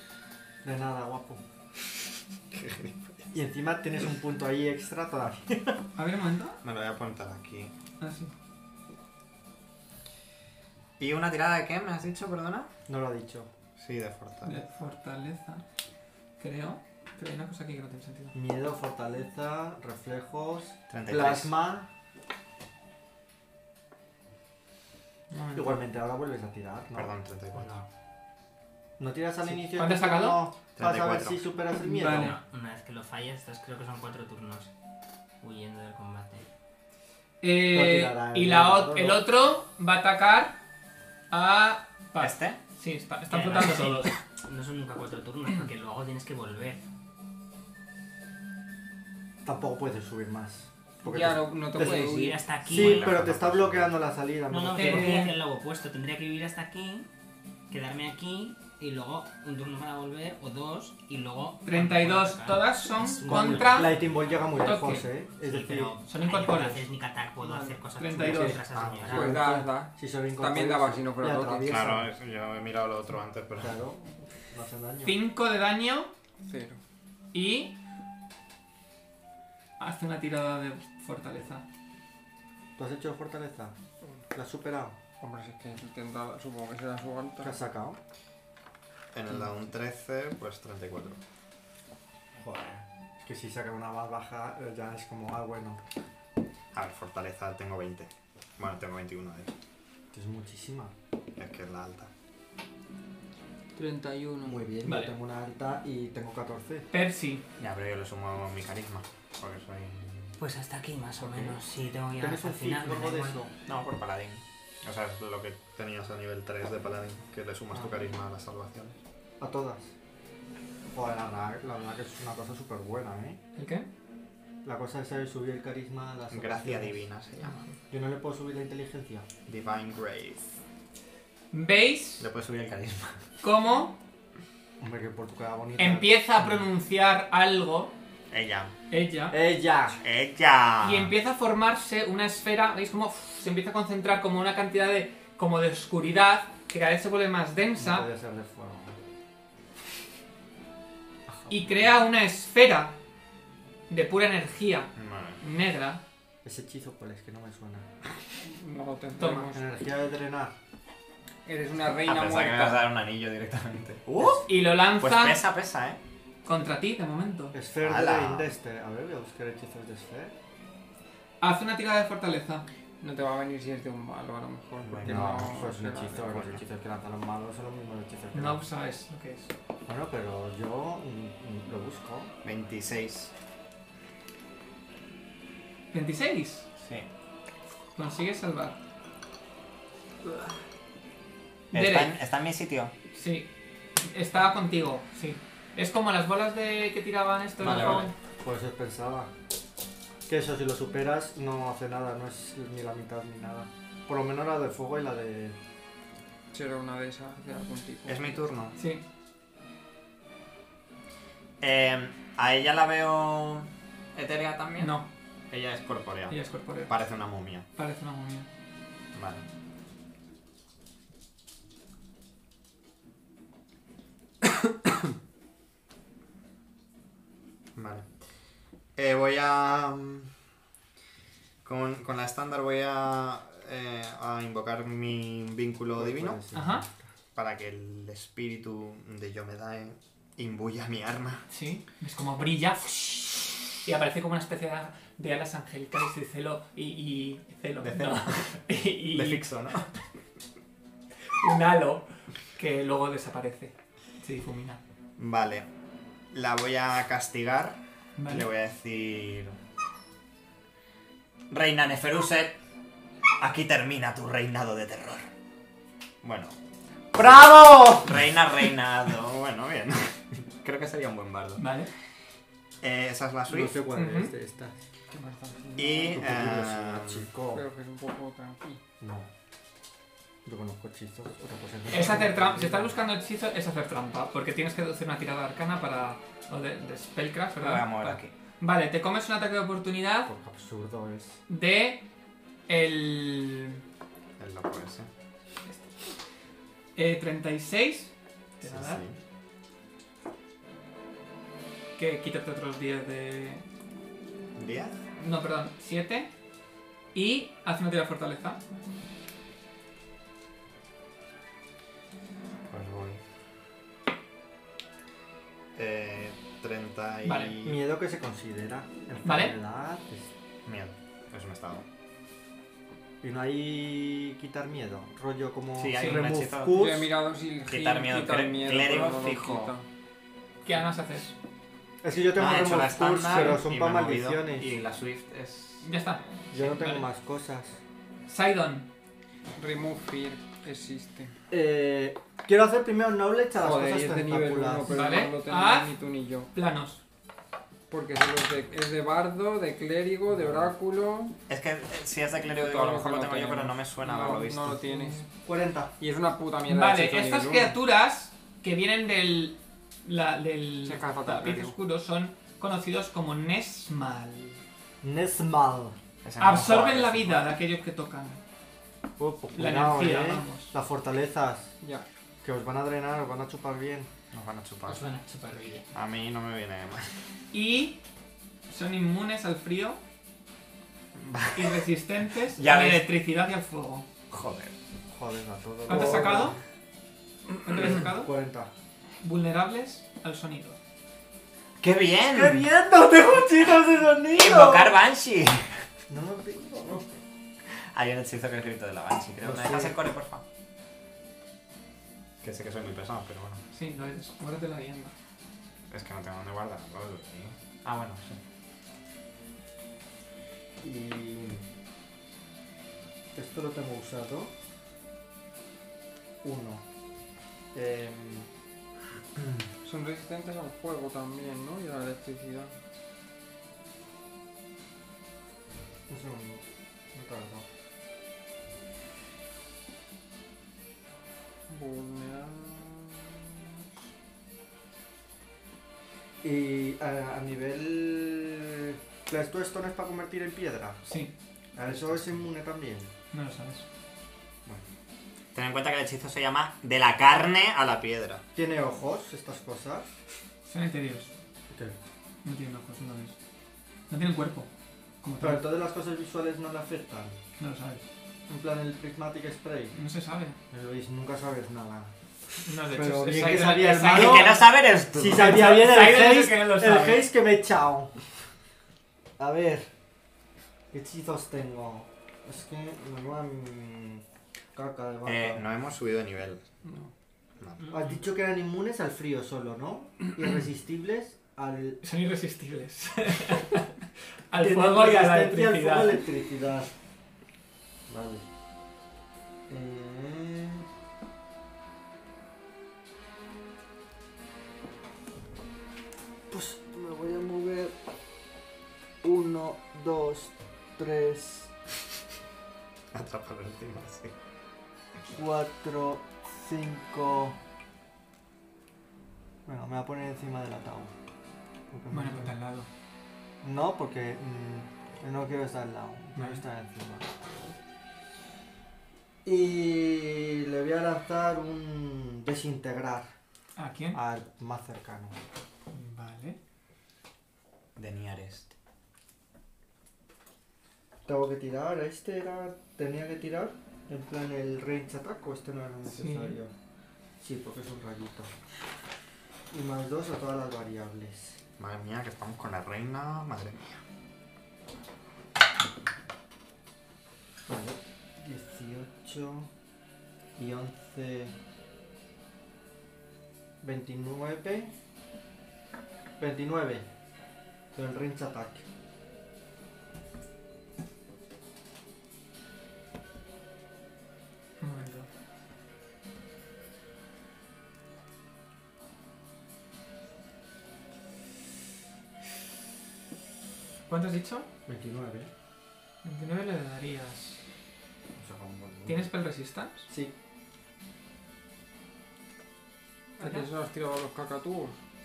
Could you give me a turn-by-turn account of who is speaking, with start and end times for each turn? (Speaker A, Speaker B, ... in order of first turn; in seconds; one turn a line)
Speaker A: 0.6-1.4
Speaker B: 2.5-3.3
Speaker A: 3.3-5.8
Speaker C: 6.0-6.6
Speaker B: 6.6-7.7
Speaker C: 8.0-8.3
Speaker B: 11.0-12.7
Speaker A: 12.9-13.5
Speaker B: 13.8-14.6
Speaker C: 14.4-15.6
Speaker C: 16.4-18.3
Speaker A: 18.3-21.9
Speaker B: 20.9-21.5
Speaker C: 25.3-25.8
Speaker A: 25.5-27.8
Speaker B: 26.9-27.8
Speaker A: 29.0-32.4
Speaker C: 29.4-30.4
Speaker B: 30.8-31.5
Speaker C: 31.8-32.4
Speaker D: 32.0-34.7
Speaker D: 35.4-36.5
Speaker C: 37.4-40.6
Speaker A: 37.7-39.2
Speaker C: 41.3-44.1
Speaker B: 42.2-42.6
Speaker D: 43.3-46.8
Speaker A: 49.4-55.2
Speaker E: 51.0-52.4
Speaker D: 51.8-53.1
Speaker B: 52.6-54.0
Speaker D: 54.5-57.1
Speaker C: 54.7-55.4
Speaker D: 57.7-64.4
Speaker C: 61.6-64.0
Speaker A: 63.2-65.9
Speaker C: 64.6-65.0
Speaker D: 65.4-69.4
Speaker C: 66.1-66.8
Speaker C: 67.4-68.6
Speaker A: 68.2-72.1
Speaker B: 68.7-69.1
Speaker E: 69.1-71.8
Speaker B: 71.7-73.8
Speaker A: 73.6-75.2
Speaker C: 75.0-76.1
Speaker E: 76.4-76.8
Speaker C: 77.3-77.8
Speaker C: 79.8-81.6
Speaker A: 82.8-83.8
Speaker A: 84.3-85.0
Speaker E: 85.2-87.6
Speaker A: 87.4-88.0
Speaker B: 89.1-91.2
Speaker A: 92.4-95.8
Speaker B: 96.7-99.5
Speaker A: 100.1-100.9
Speaker B: 101.4-102.1
Speaker E: 103.8-104.7
Speaker A: 104.4-106.9
Speaker C: 104.8-105.1
Speaker C: 106.9-107.4
Speaker B: 107.6-110.3
Speaker D: 110.4-113.4
Speaker A: 112.2-113.5
Speaker B: 113.7-119.0
Speaker A: 119.4-119.9
Speaker A: 120.9-123.4
Speaker C: 123.5-123.9
Speaker A: 124.6-127.0
Speaker B: 126.3-127.7
Speaker A: 127.9-129.3
Speaker B: 129.5-130.5
Speaker C: 131.5-132.3
Speaker B: 132.2-133.2
Speaker C: 133.4-134.0
Speaker A: 134.8-136.6
Speaker C: 135.8-137.9
Speaker B: 138.3-138.7
Speaker C: 138.9-139.4
Speaker A: 139.3-140.0
Speaker B: 140.0-141.1
Speaker C: 140.8-148.1
Speaker A: 147.8-148.9
Speaker A: 151.3-151.8
Speaker C: 151.5-152.9
Speaker C: 153.9-156.0
Speaker B: 154.9-155.4
Speaker A: 156.4-157.8
Speaker E: 158.4-159.7
Speaker C: 159.2-159.5
Speaker A: 159.5-160.5
Speaker E: 161.4-162.9
Speaker B: 162.0-166.0
Speaker C: 164.4-165.4
Speaker C: 166.4-167.6
Speaker A: 167.5-170.3
Speaker B: 167.8-168.5
Speaker C: 171.4-172.7
Speaker E: 173.0-176.4
Speaker B: 174.8-176.6
Speaker A: 175.0-178.6
Speaker C: 178.3-179.5
Speaker A: 179.8-182.3
Speaker B: 182.4-183.3
Speaker C: 185.9-186.7
Speaker B: 186.8-187.1
Speaker C: 187.9-188.8
Speaker C: 191.7-192.1
Speaker B: 191.7-192.9
Speaker C: 193.1-193.5
Speaker C: 194.0-198.1
Speaker B: 197.6-198.1
Speaker A: 197.6-199.3
Speaker A: 200.3-205.6
Speaker E: 206.5-208.4
Speaker B: 208.1-208.8
Speaker C: 208.8-209.0
Speaker B: 211.6-214.9
Speaker C: 214.8-215.1
Speaker B: 215.5-217.7
Speaker C: 216.3-216.9
Speaker C: 217.8-218.5
Speaker B: 219.1-219.4
Speaker B: 227.8-228.1
Speaker B: 228.9-230.3
Speaker B: 231.6-236.4
Speaker A: 235.9-236.9
Speaker C: 236.5-236.8
Speaker B: 237.3-241.4
Speaker C: 241.5-249.4
Speaker B: 247.8-248.6
Speaker B: 249.1-249.9
Speaker C: 251.4-254.8
Speaker B: 255.2-255.7
Speaker B: 256.3-259.6
Speaker C: 258.2-258.5
Speaker B: 261.5-262.6
Speaker B: 263.4-265.3
Speaker B: 266.2-266.5
Speaker A: 267.1-268.2
Speaker B: 267.1-271.6
Speaker C: 271.6-271.9
Speaker B: 272.8-273.8
Speaker A: 273.5-274.8
Speaker C: 273.9-274.3
Speaker E: 275.1-276.2
Speaker B: 275.8-277.3
Speaker A: 276.1-277.6
Speaker E: 277.5-278.8
Speaker A: 279.0-279.3
Speaker A: 280.4-283.0
Speaker C: 281.9-290.3
Speaker B: 287.6-288.3
Speaker A: 290.3-291.4
Speaker C: 291.5-292.0
Speaker C: 292.7-293.8
Speaker B: 294.4-295.1
Speaker C: 296.9-299.0
Speaker B: 298.6-299.2
Speaker C: 302.0-303.6
Speaker B: 304.6-305.0
Speaker C: 305.2-306.3
Speaker C: 307.1-308.6
Speaker B: 312.7-313.2
Speaker B: 315.7-317.8
Speaker C: 317.2-317.6
Speaker A: 317.6-320.3
Speaker C: 319.2-319.6
Speaker B: 320.6-321.8
Speaker A: 323.2-327.1
Speaker B: 325.7-326.9
Speaker C: 325.9-326.2
Speaker E: 326.7-329.8
Speaker B: 327.7-329.7
Speaker C: 330.6-331.3
Speaker A: 332.0-334.7
Speaker B: 332.3-335.8
Speaker C: 335.8-337.1
Speaker A: 336.5-337.8
Speaker C: 338.3-338.9
Speaker E: 339.5-341.3
Speaker A: 341.5-344.9
Speaker E: 343.6-346.5
Speaker C: 344.9-345.9
Speaker C: 346.5-347.0
Speaker E: 347.9-351.4
Speaker B: 351.5-354.8
Speaker E: 352.5-355.3
Speaker A: 355.4-355.9
Speaker E: 356.0-357.8
Speaker C: 356.6-364.6
Speaker E: 360.8-361.8
Speaker A: 365.0-365.9
Speaker B: 366.2-367.5
Speaker C: 366.4-368.4
Speaker A: 369.2-371.7
Speaker C: 369.6-370.7
Speaker E: 371.8-372.1
Speaker A: 372.4-374.1
Speaker B: 374.3-375.0
Speaker D: 374.9-375.9
Speaker B: 375.9-377.1
Speaker C: 377.5-378.0
Speaker C: 378.7-380.0
Speaker B: 381.1-381.8
Speaker C: 381.5-384.1
Speaker B: 382.6-383.1
Speaker B: 384.3-384.7
Speaker A: 385.1-386.6
Speaker C: 385.9-386.6
Speaker C: 387.6-388.3
Speaker A: 387.7-388.7
Speaker C: 389.2-390.8
Speaker B: 391.8-392.7
Speaker A: 392.3-394.9
Speaker B: 394.3-395.9
Speaker A: 396.1-397.1
Speaker B: 397.7-400.4
Speaker A: 399.4-399.9
Speaker B: 402.4-403.6
Speaker C: 403.7-405.1
Speaker B: 405.9-408.4
Speaker A: 410.8-411.6
Speaker A: 413.3-414.5
Speaker A: 416.4-416.8
Speaker A: 417.7-418.5
Speaker E: 419.8-422.7
Speaker A: 426.1-426.6
Speaker A: 427.1-427.6
Speaker E: 431.7-433.8
Speaker A: 436.4-441.0
Speaker C: 441.1-441.3
Speaker A: 441.8-443.1
Speaker C: 443.3-443.8
Speaker B: 445.5-448.4
Speaker A: 448.5-450.1
Speaker C: 450.7-451.3
Speaker A: 451.7-451.9
Speaker C: 452.4-453.3
Speaker C: 454.1-454.7
Speaker C: 455.2-455.6
Speaker A: 455.4-457.4
Speaker C: 457.6-458.0
Speaker A: 458.5-459.9
Speaker C: 459.9-460.6
Speaker A: 460.7-462.1
Speaker C: 462.6-464.7
Speaker A: 462.9-468.1
Speaker B: 464.0-465.6
Speaker C: 465.3-467.3
Speaker A: 469.4-469.9
Speaker A: 470.9-474.2
Speaker A: 474.7-475.6
Speaker B: 475.2-476.6
Speaker E: 476.8-477.1
Speaker B: 477.6-477.9
Speaker A: 477.9-482.0
Speaker C: 482.0-483.9
Speaker C: 484.5-486.2
Speaker A: 484.6-486.9
Speaker A: 488.1-488.4
Speaker A: 489.7-490.9
Speaker A: 496.5-497.9
Speaker A: 499.2-501.7
Speaker B: 503.1-504.3
Speaker A: 505.3-507.6
Speaker A: 509.6-511.1
Speaker A: 511.9-512.5
Speaker C: 512.1-512.9
Speaker A: 513.6-517.3
Speaker C: 516.4-516.6
Speaker A: 519.4-523.3
Speaker C: 523.8-524.2
Speaker A: 524.1-525.4
Speaker C: 525.9-526.6
Speaker B: 528.0-528.7
Speaker A: 531.2-536.7
Speaker C: 536.0-536.5
Speaker A: 537.4-538.5
Speaker A: 539.7-541.6
Speaker B: 541.8-544.0
Speaker A: 547.7-549.7
Speaker A: 550.5-551.5
Speaker A: 553.8-554.9
Speaker A: 556.4-557.0
Speaker A: 557.9-558.8
Speaker C: 564.8-565.3
Speaker C: 574.1-574.7
Speaker A: 574.9-575.5
Speaker C: 576.2-577.6
Speaker A: 578.4-579.3
Speaker C: 579.0-580.1
Speaker E: 583.4-585.0
Speaker C: 583.4-583.7